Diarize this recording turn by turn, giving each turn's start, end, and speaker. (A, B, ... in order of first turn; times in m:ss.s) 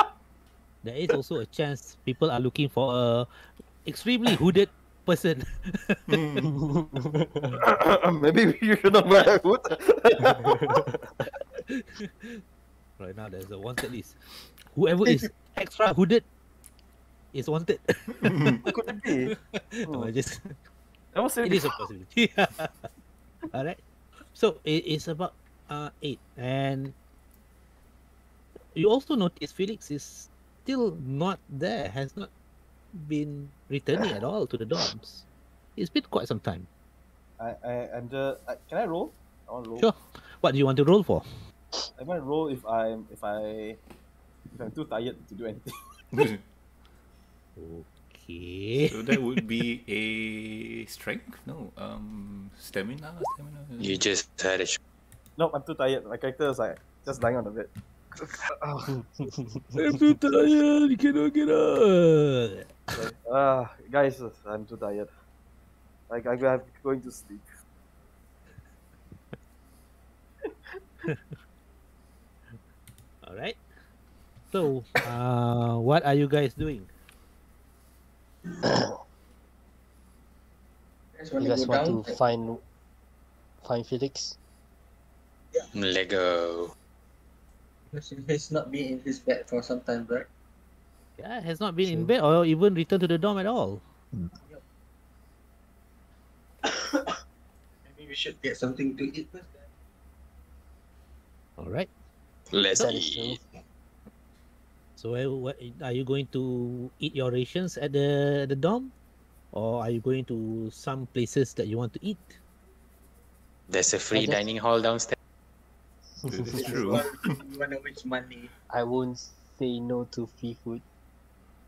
0:00.8-0:03.3 A
0:03.8-0:06.2 A
0:06.1-0:06.4 B
0:06.4-0:07.6 C
0:07.6-0:10.9 D
0:11.7-0:12.4 A
0:13.0-0:16.2 A
0:17.3-0:18.7 A
0:18.2-0:18.6 B
0:18.6-0:19.3 D
0:19.2-0:20.6 A
0:21.1-0:21.8 D
0:21.4-0:22.9 A
0:23.5-0:26.9 A
0:28.7-0:32.3 A
0:32.9-0:35.2 A
0:35.8-0:36.7 A
0:37.4-0:39.9 D
0:39.8-0:41.3 A
0:42.0-0:43.8 D
0:44.5-0:45.7 D
0:46.1-0:46.4 B
0:47.6-0:49.2 A
0:48.8-0:54.0 B
0:53.8-0:54.8 E
0:55.4-0:58.8 D
0:59.8-1:02.8 A
1:02.9-1:05.1 D
1:06.1-1:07.5 D
1:10.5-1:10.7 D
1:11.1-1:11.4 A
1:13.2-1:13.6 A
1:14.5-1:16.9 A
1:18.6-1:18.9 C
1:21.2-1:22.2 F
1:21.4-1:22.6 C
1:23.6-1:24.4 C
1:25.7-1:26.7 E
1:27.9-1:30.3 F
1:31.2-1:33.8 A
1:31.8-1:32.1 C
1:36.6-1:37.1 F
1:37.8-1:39.6 F
1:41.6-1:41.9 A
1:42.5-1:43.4 E
1:42.7-1:43.4 C
1:45.0-1:48.9 A
1:49.5-1:52.4 A
1:53.7-1:55.2 E
1:54.1-1:54.4 C
1:56.2-1:57.0 C
1:56.3-1:57.3 B
1:56.4-1:58.5 F
1:58.7-2:00.8 C